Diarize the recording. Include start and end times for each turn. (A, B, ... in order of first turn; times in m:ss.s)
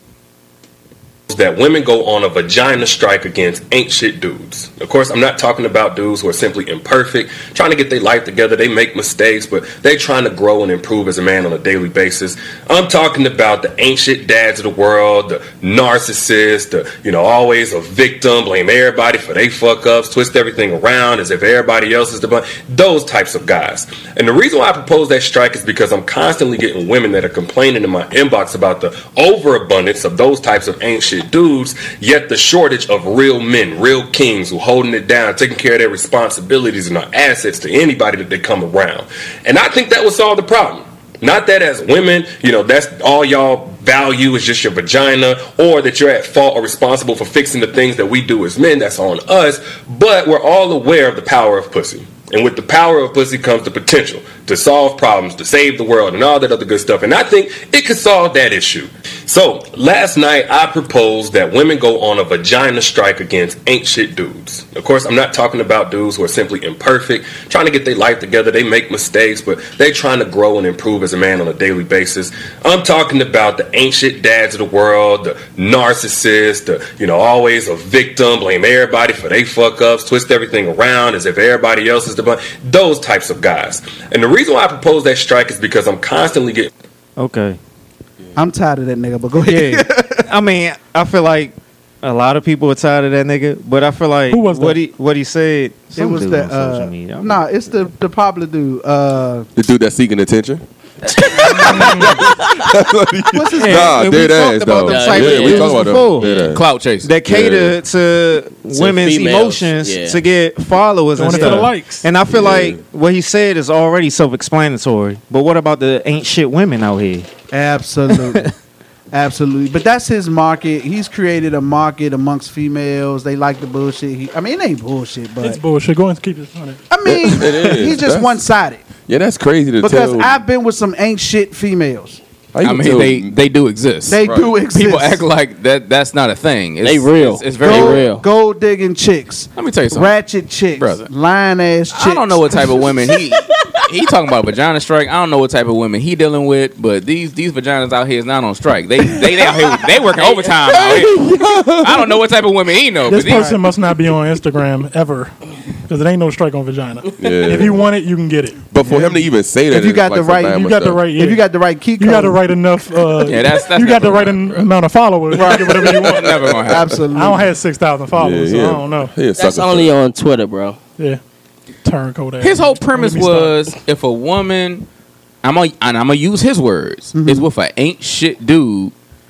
0:01.3-1:26.7 A
1:27.2-1:27.6 B
1:28.4-1:30.2 C
1:29.4-1:37.4 B
1:34.3-1:34.8 D
1:35.9-1:39.5 C
1:39.6-1:46.6 E
1:43.3-1:44.0 C
1:43.5-1:46.3 B
1:44.8-1:45.9 F
1:46.1-1:47.1 G
1:47.0-1:57.3 B
1:47.2-1:47.8 E
1:48.7-1:50.2 F
1:51.2-1:52.1 D
1:52.3-1:52.8 E
1:57.5-1:58.5 C
1:58.1-1:58.5 B
1:59.1-2:05.6 C
2:05.4-2:06.8 D
2:06.9-2:08.8 C
2:07.0-2:08.4 E
2:09.0-2:10.3 E
2:09.8-2:12.2 C
2:12.5-2:13.3 E
2:12.6-2:14.2 G
2:14.1-2:15.2 C
2:14.2-2:14.5 E
2:14.7-2:18.1 G
2:16.8-2:18.2 F
2:17.6-2:22.7 C
2:19.6-2:20.2 G
2:20.7-2:21.1 G
2:21.9-2:33.5 G
2:30.6-2:31.9 E
2:33.1-2:35.3 D
2:35.9-2:38.6 D
2:37.2-2:37.8 E
2:38.7-2:41.0 E
2:38.8-2:42.4 C
2:40.5-2:41.4 D
2:42.0-2:46.6 D
2:43.2-2:44.7 G
2:45.3-2:45.9 C
2:45.4-2:47.0 G
2:45.8-2:46.8 E
2:46.6-2:47.5 C
2:47.1-2:49.1 D
2:48.1-2:49.9 E
2:49.3-2:50.8 F
2:51.8-2:53.6 D
2:52.4-2:54.8 G
2:55.4-2:58.9 G
2:57.1-2:57.4 C